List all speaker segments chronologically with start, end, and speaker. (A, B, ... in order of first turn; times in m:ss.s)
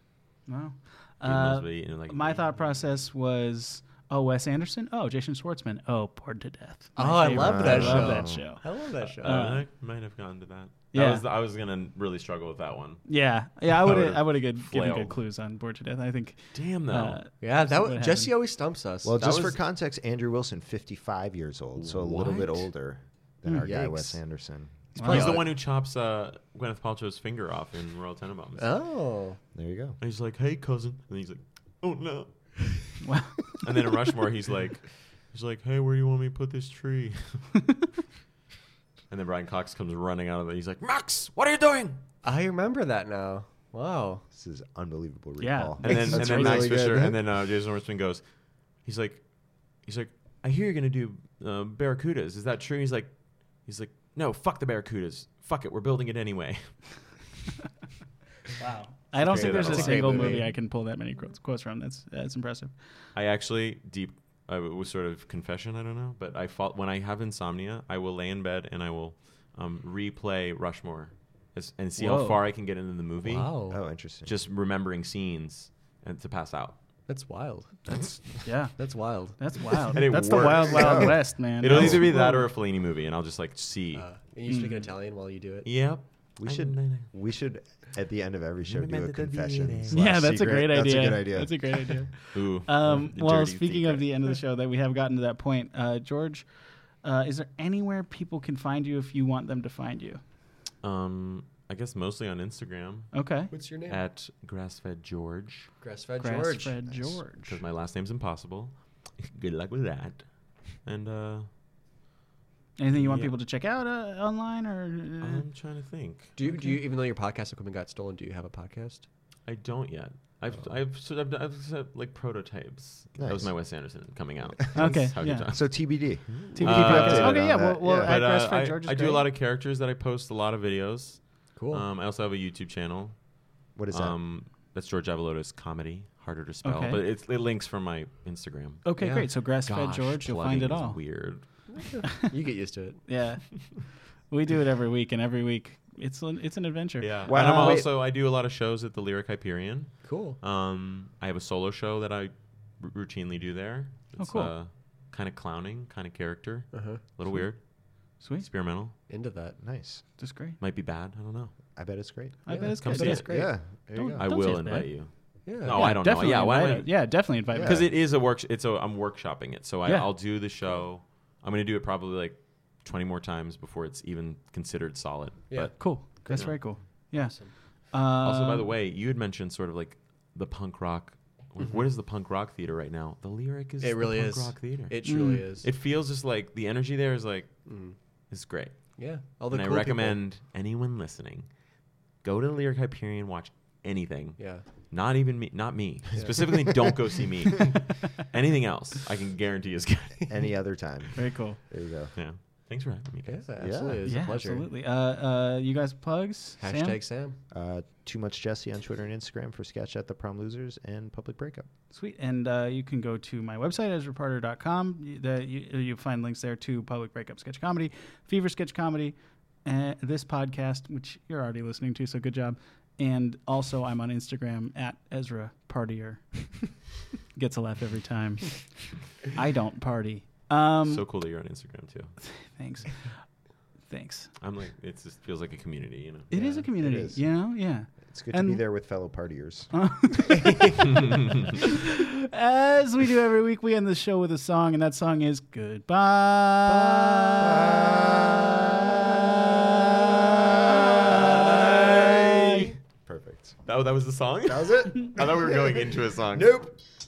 0:00.5-0:09.7 A
0:01.2-0:02.6 B
0:07.0-0:09.5 C
0:07.3-0:08.5 D
0:09.0-0:13.1 B
0:10.9-0:11.2 A
0:13.1-0:18.3 A
0:13.6-0:15.2 B
0:16.5-0:17.2 B
0:17.4-0:19.2 C
0:19.0-0:25.3 D
0:19.2-0:19.6 B
0:21.8-0:22.7 B
0:23.4-0:23.7 A
0:23.7-0:24.2 B
0:25.0-0:25.4 A
0:25.0-0:28.7 B
0:25.0-0:25.5 C
0:28.6-0:29.4 C
0:29.5-0:30.0 D
0:30.0-0:37.5 B
0:33.0-0:33.4 A
0:39.1-0:42.0 B
0:42.2-0:44.2 C
0:44.3-0:47.2 D
0:45.4-0:46.6 A
0:45.8-0:57.2 B
0:45.9-0:47.0 C
0:58.6-1:02.8 A
0:59.2-1:00.5 B
0:59.2-1:00.5 C
1:03.2-1:13.6 B
1:12.0-1:12.4 A
1:13.2-1:13.8 C
1:13.7-1:14.3 D
1:14.2-1:16.8 B
1:17.1-1:20.0 C
1:18.4-1:22.5 A
1:19.9-1:24.1 B
1:20.3-1:22.0 D
1:23.9-1:25.7 C
1:24.5-1:24.9 A
1:25.6-1:27.1 B
1:26.4-1:32.0 D
1:28.6-1:30.1 B
1:29.9-1:40.2 A
1:32.3-1:34.1 B
1:40.8-1:43.2 B
1:43.1-1:43.5 A
1:43.5-1:44.0 C
1:43.8-1:45.7 B
1:45.8-1:47.2 C
1:46.2-1:47.6 A
1:47.4-1:51.5 B
1:52.8-1:55.4 A
1:52.9-1:53.4 B
1:55.2-1:56.4 B
1:56.4-1:59.1 C
1:56.4-1:56.8 A
1:59.5-2:05.8 B
2:03.2-2:03.6 D
2:04.7-2:05.5 A
2:04.8-2:08.2 D
2:06.3-2:18.8 B
2:06.5-2:09.3 A
2:11.5-2:11.8 C
2:13.8-2:14.2 D
2:16.6-2:17.0 A
2:18.8-2:21.1 A
2:19.0-2:19.3 C
2:19.5-2:21.8 B
2:21.7-2:23.1 C
2:23.0-2:27.8 A
2:27.0-2:39.0 B
2:27.3-2:27.9 D
2:30.0-2:30.4 C
2:34.2-2:34.5 A
2:36.7-2:37.4 C
2:38.2-2:38.5 A
2:39.1-2:39.6 C
2:39.6-2:40.0 D
2:40.2-2:40.6 A
2:40.6-2:41.6 B
2:41.7-2:44.3 D
2:42.4-2:47.8 A
2:42.5-2:43.5 C
2:42.8-2:43.6 B
2:44.2-2:56.6 B
2:45.4-2:45.9 C
2:47.5-2:47.9 D
2:55.5-2:55.8 C
2:55.8-2:58.7 A
2:56.2-2:56.5 D
2:57.1-2:57.5 C
2:58.2-3:07.8 B
3:03.8-3:05.7 C
3:05.0-3:05.5 A
3:07.7-3:08.0 C
3:08.3-3:11.6 B
3:09.0-3:10.2 C
3:12.2-3:20.4 B
3:14.4-3:14.7 C
3:16.2-3:16.4 C
3:20.3-3:22.1 D
3:21.2-3:21.6 A
3:22.2-3:23.5 B
3:23.2-3:24.7 C
3:23.6-3:24.0 D
3:24.1-3:27.0 A
3:26.6-3:27.4 C
3:27.5-3:31.7 D
3:31.9-3:51.0 A
3:50.9-3:52.2 B
3:52.2-3:53.3 A
3:53.8-3:54.3 A
3:54.4-3:56.4 B
3:56.3-3:58.6 A
3:56.4-3:57.3 D
3:58.1-3:59.7 D
3:59.7-4:00.8 A
4:01.6-4:07.8 A
4:06.7-4:13.6 D
4:09.7-4:12.7 A
4:13.7-4:16.6 B
4:14.5-4:16.7 D